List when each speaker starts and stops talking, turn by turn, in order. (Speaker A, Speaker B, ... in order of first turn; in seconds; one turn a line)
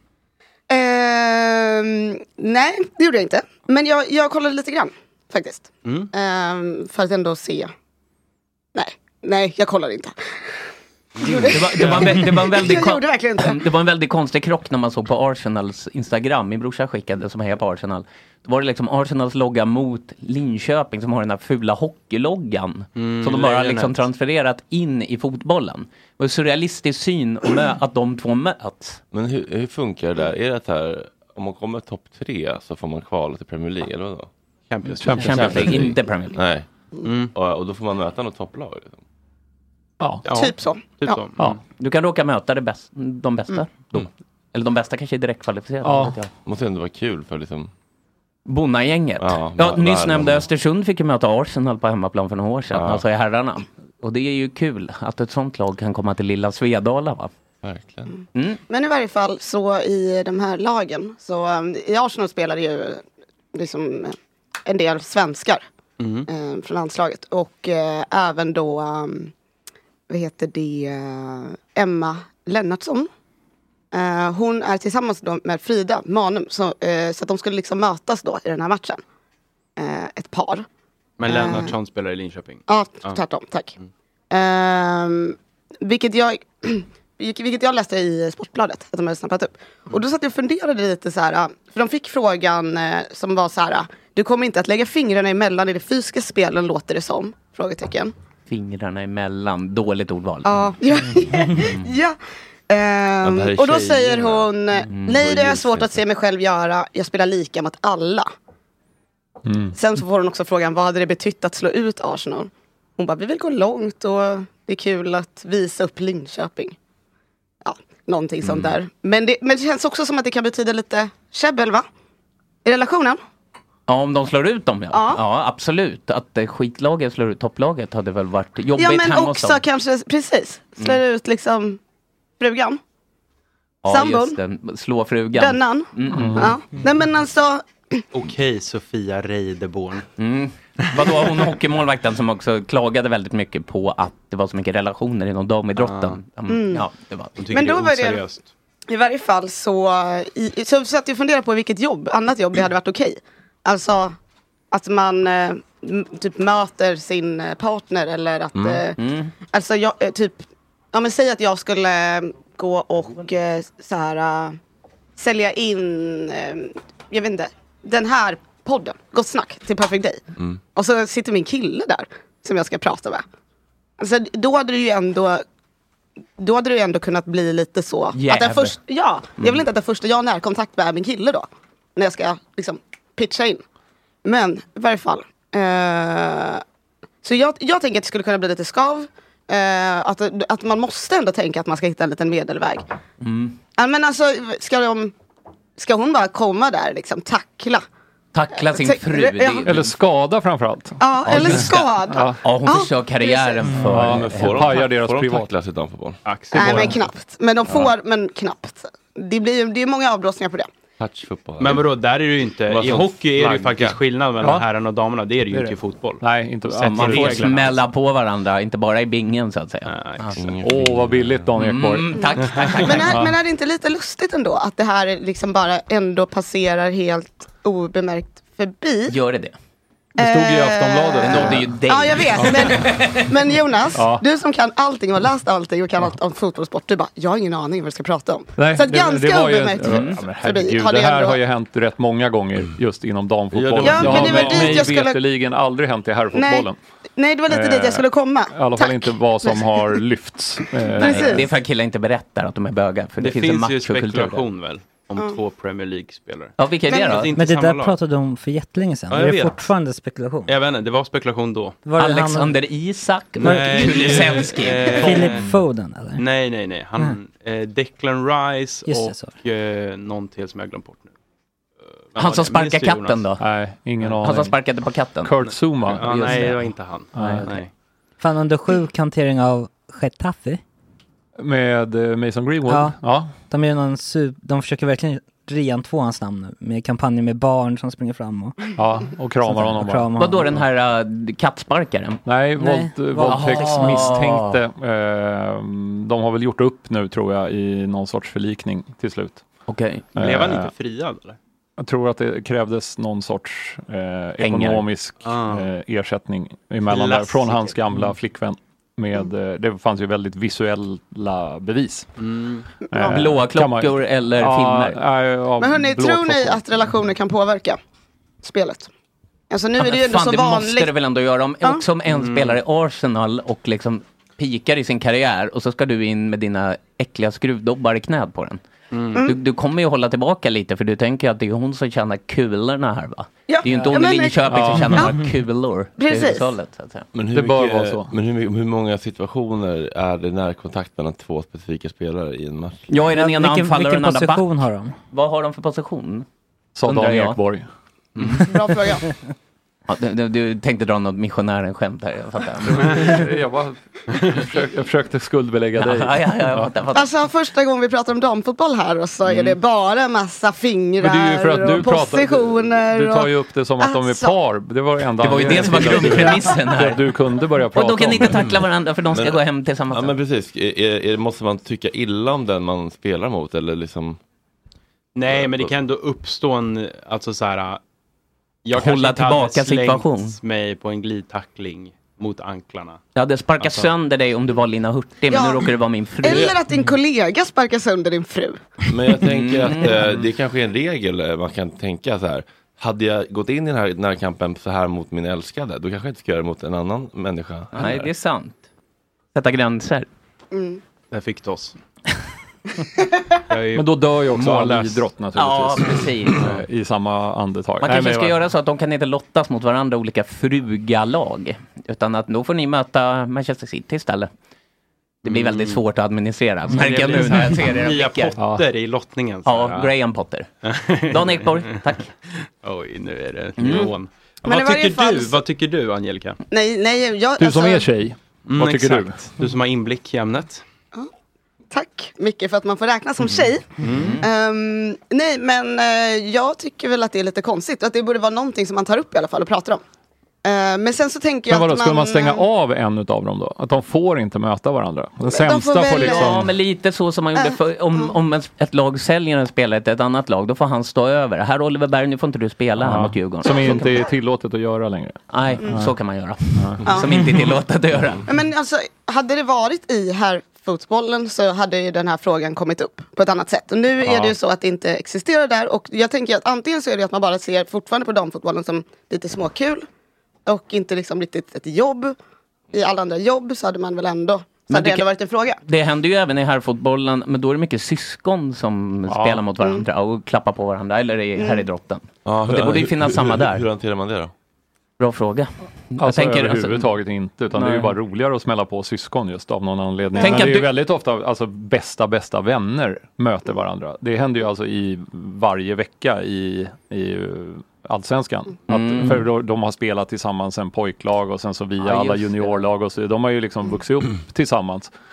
Speaker A: 0.7-7.7
Speaker B: 5.8-6.1
Speaker A: 8.7-10.6
Speaker B: 11.2-12.2
Speaker A: 11.2-13.6
Speaker C: 11.5-29.0
Speaker B: 22.9-24.0
Speaker D: 29.1-34.3
Speaker B: 34.7-35.9
Speaker E: 35.0-35.7
Speaker C: 35.1-36.4
Speaker D: 35.2-36.7
Speaker B: 37.0-37.3
Speaker D: 37.3-39.0
Speaker E: 40.0-40.2
Speaker B: 40.2-41.6
Speaker A: 40.3-41.2
Speaker C: 41.8-46.3
Speaker E: 45.8-46.1
Speaker D: 46.4-47.7
Speaker C: 48.5-57.3
Speaker D: 49.2-50.5
Speaker D: 52.7-53.0
Speaker D: 57.6-58.1
Speaker A: 58.7-63.0
Speaker A: 63.5-65.6
Speaker B: 66.0-66.3
Speaker A: 66.3-69.3
Speaker A: 70.1-73.1
Speaker A: 73.9-79.0
Speaker A: 79.8-80.7
Speaker B: 81.2-83.2
Speaker A: 81.2-81.8
Speaker A: 82.7-83.7
Speaker A: 84.3-98.1
Speaker C: 98.5-100.7
Speaker A: 100.4-102.2
Speaker C: 101.5-101.8
Speaker A: 102.7-108.3
Speaker D: 103.2-104.5
Speaker C: 104.9-105.2
Speaker D: 105.1-106.0
Speaker E: 109.5-109.7
Speaker A: 109.7-116.8
Speaker A: 117.6-121.8
Speaker C: 118.4-118.7
Speaker A: 122.6-123.2
Speaker C: 123.9-129.6
Speaker A: 124.9-125.2
Speaker A: 128.8-131.8
Speaker A: 132.4-132.8
Speaker C: 133.8-136.5
Speaker A: 133.9-134.4
Speaker A: 135.3-137.6
Speaker E: 136.1-136.5
Speaker B: 138.1-140.1
Speaker C: 140.2-147.3
Speaker B: 145.8-146.2
Speaker A: 146.5-146.8
Speaker B: 147.4-148.5
Speaker A: 147.5-148.2
Speaker A: 148.9-154.1
Speaker A: 154.7-159.0
Speaker D: 158.6-158.8
Speaker C: 159.0-159.3
Speaker A: 159.5-164.6
Speaker A: 165.2-170.2
Speaker A: 170.7-173.2
Speaker A: 174.0-175.4
Speaker A: 176.4-183.6
Speaker C: 178.1-178.8
Speaker A: 184.2-186.6
Speaker A: 187.2-192.8
Speaker C: 193.2-193.6
Speaker A: 193.8-195.1
Speaker A: 195.8-197.8
Speaker C: 198.3-200.0
Speaker A: 198.6-199.7
Speaker E: 199.6-202.4
Speaker A: 201.0-203.8
Speaker C: 201.2-204.7
Speaker E: 203.8-205.5
Speaker D: 203.9-206.2
Speaker B: 206.2-207.0
Speaker A: 206.5-210.7
Speaker E: 206.6-206.9
Speaker D: 211.0-211.9
Speaker B: 211.6-217.7
Speaker D: 212.7-214.0
Speaker E: 214.4-214.7
Speaker E: 215.5-217.7
Speaker C: 216.8-220.4
Speaker B: 219.8-220.3
Speaker D: 220.3-221.5
Speaker E: 220.6-222.2
Speaker C: 221.6-223.2
Speaker A: 222.2-229.2
Speaker B: 222.5-222.8
Speaker E: 223.0-223.3
Speaker C: 229.1-229.5
Speaker E: 230.2-231.7
Speaker A: 230.2-241.4
Speaker C: 231.2-233.3
Speaker E: 232.4-232.6
Speaker E: 233.9-234.2
Speaker E: 238.6-246.8
Speaker C: 239.8-240.2
Speaker D: 243.5-244.8
Speaker A: 243.8-245.2
Speaker A: 246.3-249.9
Speaker E: 247.5-251.4
Speaker A: 250.8-251.4
Speaker C: 251.0-254.4
Speaker B: 253.2-258.0
Speaker C: 256.6-257.3
Speaker A: 256.9-257.2
Speaker F: 257.3-260.5
Speaker B: 259.1-259.7
Speaker B: 260.5-261.8
Speaker F: 261.8-262.6
Speaker C: 262.0-265.3
Speaker B: 263.4-265.5
Speaker F: 263.4-264.2
Speaker F: 264.9-266.2
Speaker B: 266.2-271.1
Speaker F: 268.9-269.4
Speaker B: 272.1-273.3
Speaker C: 272.1-273.4
Speaker E: 273.4-274.6
Speaker C: 274.2-275.4
Speaker E: 275.2-276.6
Speaker B: 275.8-277.7
Speaker C: 275.9-276.6
Speaker E: 277.1-277.5
Speaker F: 278.2-280.6
Speaker E: 281.4-283.3
Speaker F: 282.7-283.0
Speaker F: 283.5-288.7
Speaker E: 288.8-290.1
Speaker F: 289.4-290.6
Speaker C: 290.2-292.2
Speaker E: 292.2-299.4
Speaker F: 292.6-294.1
Speaker C: 293.2-294.6
Speaker C: 299.7-300.1
Speaker E: 300.2-300.7
Speaker B: 300.2-301.4
Speaker E: 301.8-312.1
Speaker C: 304.4-304.8
Speaker B: 305.2-305.7
Speaker B: 306.9-307.8
Speaker B: 312.2-312.7
Speaker A: 312.9-313.2
Speaker E: 312.9-316.6
Speaker C: 313.1-315.0
Speaker A: 315.6-317.8
Speaker A: 318.4-318.9
Speaker A: 319.5-320.9
Speaker C: 319.8-328.6
Speaker B: 322.1-322.6
Speaker B: 328.9-329.2
Speaker C: 329.2-337.1
Speaker A: 333.5-335.2
Speaker E: 334.5-335.1
Speaker A: 336.0-336.4
Speaker D: 337.1-342.9
Speaker E: 337.3-338.1
Speaker C: 342.9-344.5
Speaker F: 343.1-344.9
Speaker C: 345.1-346.2
Speaker E: 346.7-347.7
Speaker C: 346.8-347.4
Speaker B: 348.1-348.4
Speaker A: 348.4-349.1
Speaker C: 349.9-353.2
Speaker E: 352.7-356.7
Speaker C: 355.8-357.1
Speaker A: 356.9-364.4
Speaker C: 359.2-359.6
Speaker E: 361.0-368.5
Speaker C: 365.2-367.0
Speaker C: 367.7-370.1
Speaker D: 369.1-369.4
Speaker D: 369.9-374.2
Speaker B: 375.1-377.8
Speaker D: 375.3-375.7
Speaker B: 378.6-383.0
Speaker C: 378.7-380.4
Speaker C: 383.1-386.6
Speaker A: 385.3-385.7
Speaker A: 386.2-388.7
Speaker D: 388.9-398.1
Speaker C: 389.3-390.0
Speaker C: 397.7-398.6
Speaker C: 399.3-400.1
Speaker A: 400.5-400.8
Speaker B: 401.1-401.8
Speaker B: 403.5-405.1
Speaker E: 403.7-408.4
Speaker C: 405.3-406.4
Speaker C: 407.8-414.3
Speaker B: 415.2-415.8
Speaker C: 415.2-418.3
Speaker B: 416.7-419.9
Speaker E: 418.4-418.6
Speaker C: 419.4-420.5
Speaker B: 420.6-421.8
Speaker C: 421.1-422.1
Speaker B: 422.6-426.4
Speaker C: 423.6-423.9
Speaker A: 424.4-425.4
Speaker A: 426.5-427.9
Speaker E: 427.4-429.3
Speaker B: 428.5-430.6
Speaker A: 431.7-439.8
Speaker B: 433.8-434.2
Speaker C: 433.9-434.2
Speaker A: 440.4-442.4
Speaker E: 441.5-446.5
Speaker A: 445.3-446.4
Speaker C: 446.0-453.9
Speaker A: 447.4-448.1
Speaker E: 452.8-455.9
Speaker C: 455.3-458.2
Speaker E: 456.6-456.9
Speaker A: 456.9-457.1
Speaker A: 458.2-469.8
Speaker E: 464.0-464.3
Speaker A: 470.4-472.1
Speaker A: 472.7-475.6
Speaker C: 474.7-475.1
Speaker C: 475.6-483.6
Speaker E: 479.1-479.4
Speaker A: 481.4-481.6
Speaker D: 482.2-484.3
Speaker C: 485.0-486.9
Speaker E: 486.0-504.9
Speaker C: 487.5-487.9
Speaker C: 490.2-490.7
Speaker A: 490.2-490.4
Speaker C: 498.7-499.2
Speaker C: 501.8-502.6